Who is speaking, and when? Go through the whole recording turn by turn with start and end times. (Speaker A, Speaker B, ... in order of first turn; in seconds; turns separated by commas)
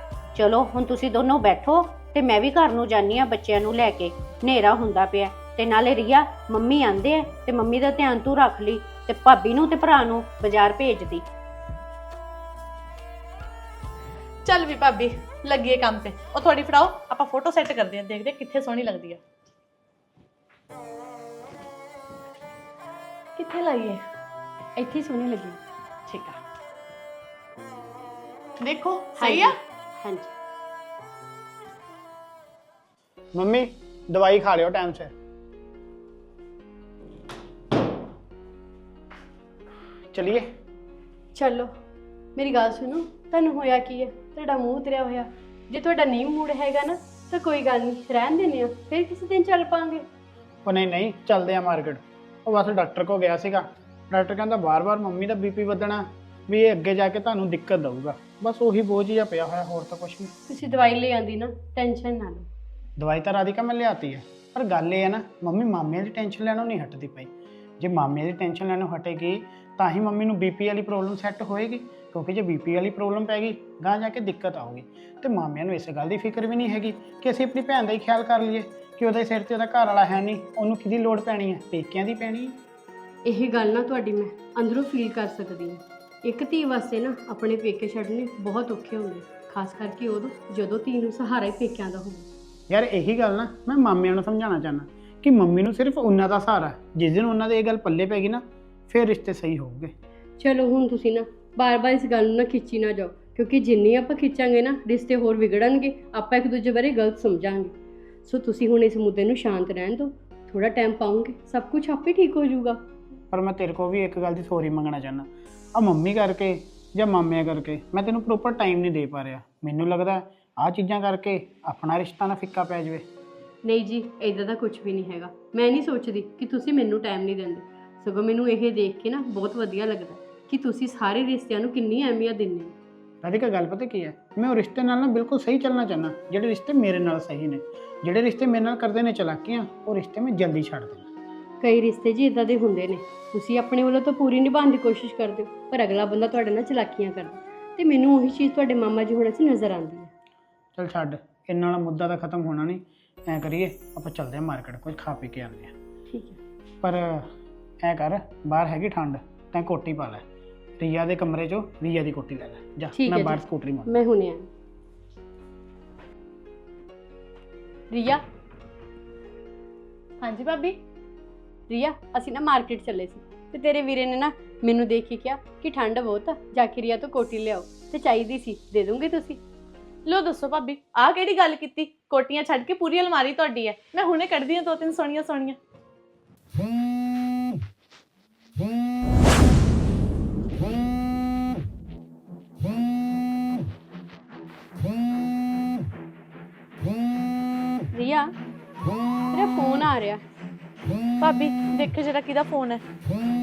Speaker A: 0.3-11.2, Speaker B: 14.4-19.2, Speaker B: 23.4-24.0, Speaker C: 24.8-25.6, Speaker B: 26.1-26.4, Speaker B: 28.6-29.6, Speaker C: 29.2-30.3, Speaker D: 33.4-35.1, Speaker D: 40.1-40.5, Speaker C: 41.3-41.7, Speaker C: 42.4-50.1, Speaker D: 50.6-60.3, Speaker C: 60.5-62.5, Speaker D: 63.0-67.3, Speaker D: 67.8-82.6, Speaker C: 83.2-92.3, Speaker D: 92.7-99.9, Speaker C: 100.4-107.7, Speaker C: 108.3-112.8, Speaker D: 113.3-123.0, Speaker C: 123.6-132.8, Speaker D: 133.2-141.1, Speaker C: 141.6-150.1, Speaker D: 150.8-155.7, Speaker C: 156.1-156.4, Speaker D: 156.8-157.3, Speaker D: 157.8-160.2, Speaker D: 160.8-164.0, Speaker C: 162.9-164.5, Speaker C: 167.9-168.2, Speaker B: 170.2-170.8, Speaker C: 171.7-179.4, Speaker B: 180.1-185.6, Speaker C: 197.9-198.3, Speaker C: 199.3-200.2, Speaker B: 201.2-202.8